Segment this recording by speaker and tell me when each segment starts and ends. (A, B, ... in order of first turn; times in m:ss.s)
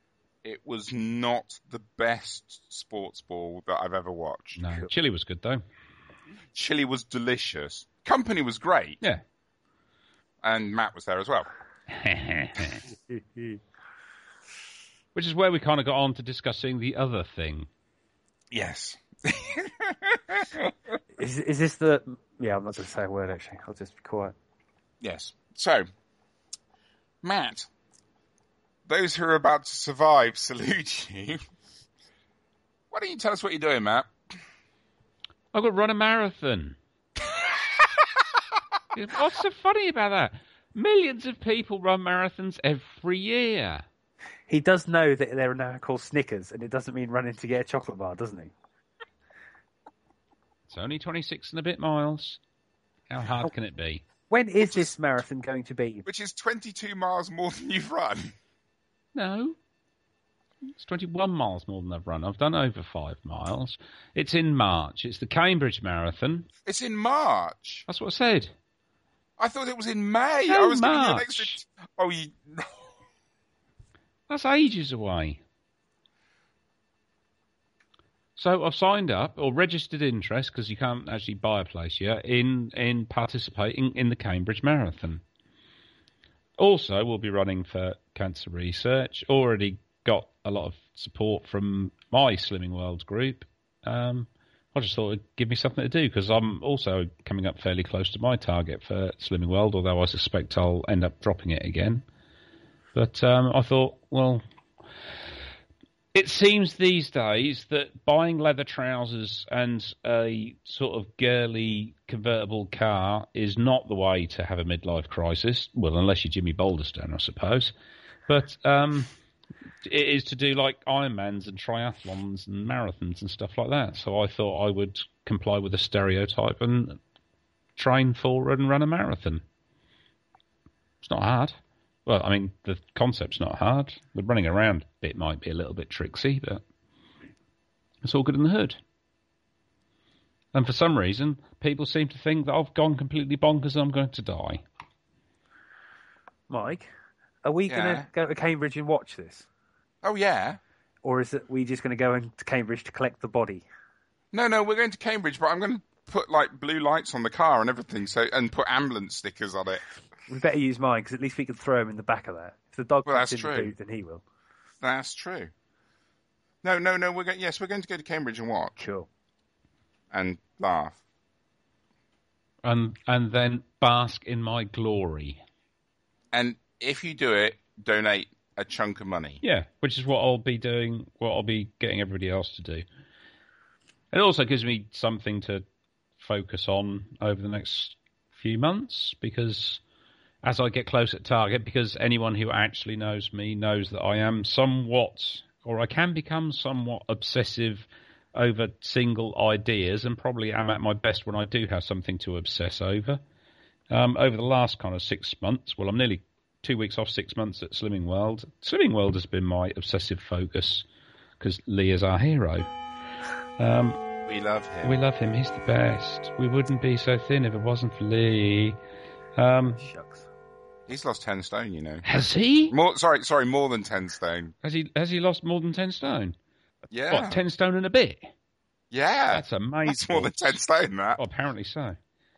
0:00.4-0:04.6 A
0:04.6-0:05.6 B
0:06.5-0:09.0 A
0:10.4-0:11.5 A
0:11.9-0:12.8 B
0:13.1-0:13.6 C
0:15.2-0:17.7 B
0:18.5-0:20.7 A
0:21.2-0:24.4 C
0:25.0-0:25.8 A
0:27.2-0:27.7 A
0:28.9-0:31.4 A
0:32.9-0:34.1 A
0:35.5-0:36.8 B
0:38.9-0:43.8 B
0:44.5-0:48.5 C
0:50.7-0:52.4 B
0:53.1-0:54.0 B
0:54.3-0:56.1 C
0:56.1-0:58.4 A
0:59.2-0:59.6 B
1:00.6-1:06.5 B
1:06.7-1:07.9 A
1:07.9-1:08.5 B
1:09.4-1:12.9 A
1:10.5-1:11.6 B
1:14.3-1:15.4 B
1:18.4-1:25.2 B
1:26.6-1:42.0 B
1:42.9-1:44.4 B
1:46.1-1:57.7 B
1:58.3-1:59.1 B
1:59.8-2:07.0 B
2:07.8-2:09.4 B
2:11.0-2:16.6 B
2:18.0-2:18.8 B
2:20.5-2:24.6 B
2:26.5-2:26.9 C
2:27.4-2:29.5 C
2:27.7-2:28.1 A
2:30.0-2:30.6 A
2:31.0-2:33.7 C
2:34.3-2:39.8 A
2:40.3-2:44.2 C
2:43.1-2:43.7 A
2:44.8-2:45.5 A
2:46.6-2:48.8 A
2:48.8-2:49.1 C
2:50.1-2:51.0 A
2:52.6-2:55.4 B
2:56.3-2:59.4 A
2:59.4-3:02.8 B
3:04.1-3:05.6 B
3:06.2-3:09.8 B
3:10.4-3:23.2 B
3:23.9-3:30.9 B
3:31.4-3:32.7 B
3:33.6-3:34.0 B
3:34.3-3:35.0 A
3:34.8-3:38.8 B
3:39.4-3:39.8 B
3:39.7-3:40.3 C
3:40.9-3:42.1 A
3:42.0-3:42.7 B
3:42.7-3:44.5 A
3:44.6-3:46.4 B
3:46.9-3:47.4 A
3:47.1-3:48.3 B
3:48.9-3:51.2 A
3:49.3-3:50.6 B
3:51.2-3:52.0 B